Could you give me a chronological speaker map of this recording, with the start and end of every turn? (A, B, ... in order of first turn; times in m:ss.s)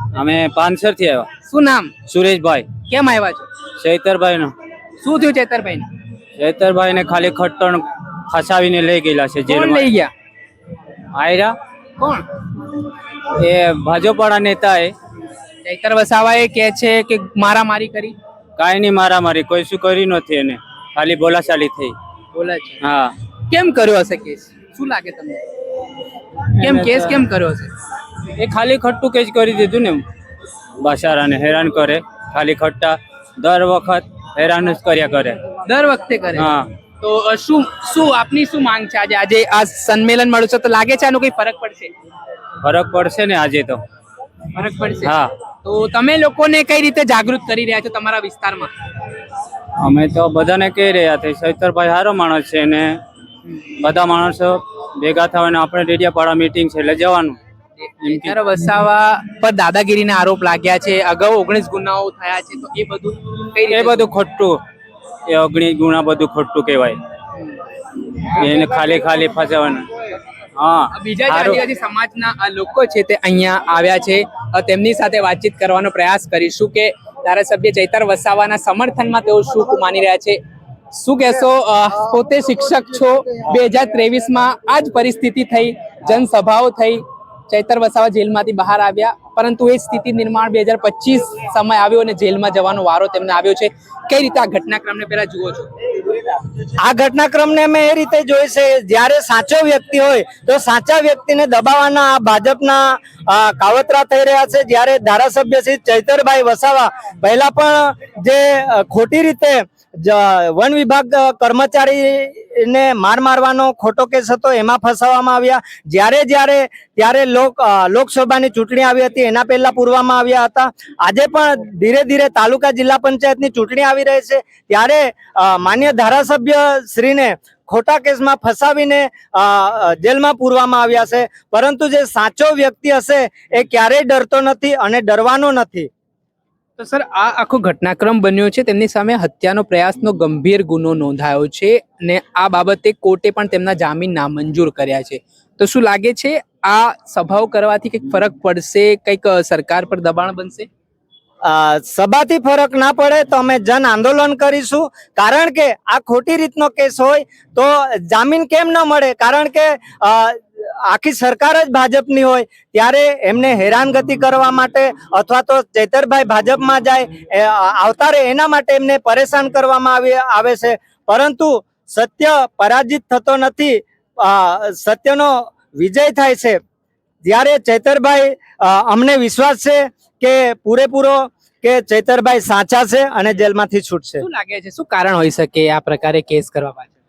0:00.1-0:01.3 A
0:01.5-0:01.9 B
0:02.1-0:02.6 A
0:02.9-0:03.5 B
0:03.8-0:04.5 A
0:05.0-0:05.9 B
0:06.4-0:09.9 A
0:09.5-0:10.1 B
0:11.1-0:11.5 A
0:12.0-0:12.2 B
0:13.4-0:14.9 A
0:15.6-0:18.2 B
0:18.6-0:21.9 A
0:22.3-0:22.8 B
0:22.8-0:23.1 A
0:23.5-0:25.4 B
0:26.6-0:27.7 B
0:26.6-0:27.2 A
0:28.4-0:30.0 A
0:30.8-0:35.4 A
0:35.6-0:41.9 B
0:36.4-0:36.6 A
0:42.6-0:43.8 A
0:44.5-0:48.7 B
0:45.0-0:45.3 A
0:49.8-0:53.0 A
0:53.8-0:57.4 A
0:57.8-1:04.1 B
0:58.0-0:58.3 A
1:03.7-1:04.6 A
1:05.3-1:07.0 A
1:08.2-1:09.9 A
1:10.6-1:11.6 A
1:10.9-1:20.4 B
1:20.9-1:35.7 B
1:36.8-2:15.9 C
2:16.8-2:30.7 B
2:31.4-2:56.6 C
2:57.2-3:04.2 C
3:04.2-3:06.9 B